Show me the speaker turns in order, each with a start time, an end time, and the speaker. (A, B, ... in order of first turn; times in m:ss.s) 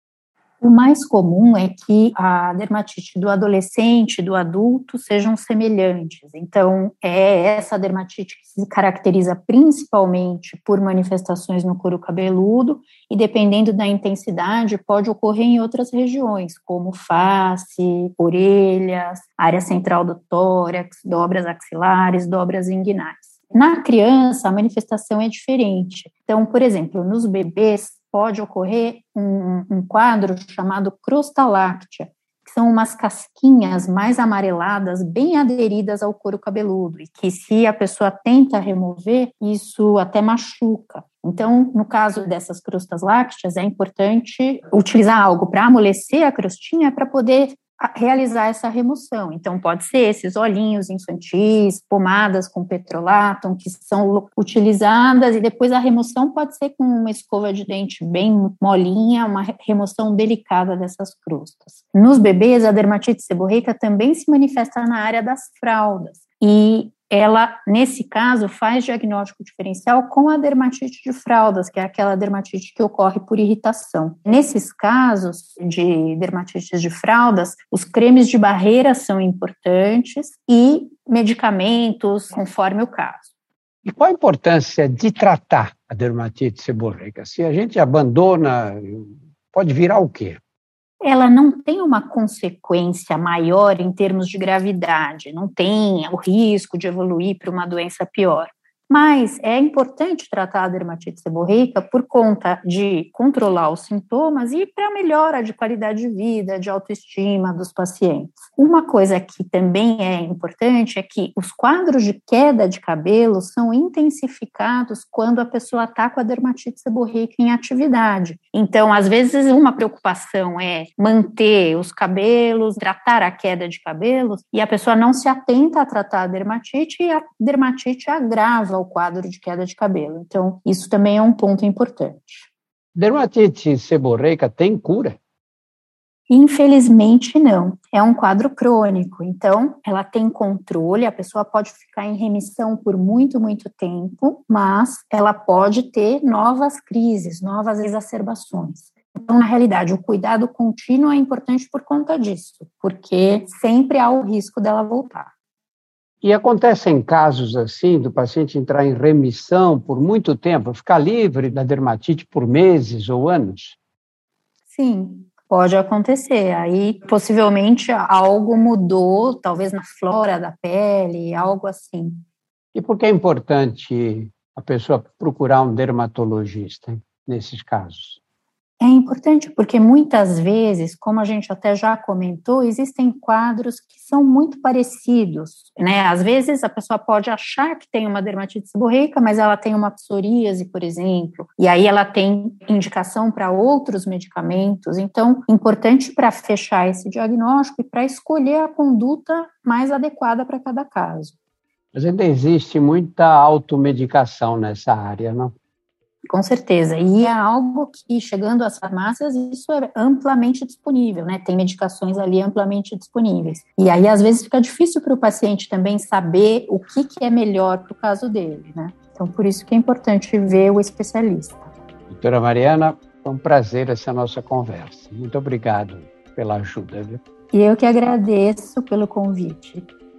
0:00.6-1:23.3 A
1:23.8-1:30.4 B
1:31.0-2:12.5 A
2:13.0-2:15.2 B
2:16.3-2:35.3 A
2:36.2-2:43.8 B
2:44.7-2:52.2 A
2:52.7-2:58.2 B
2:58.8-3:21.3 A
3:21.9-3:25.5 B
3:26.3-3:41.7 A
3:42.1-3:47.2 B
3:47.5-3:49.9 A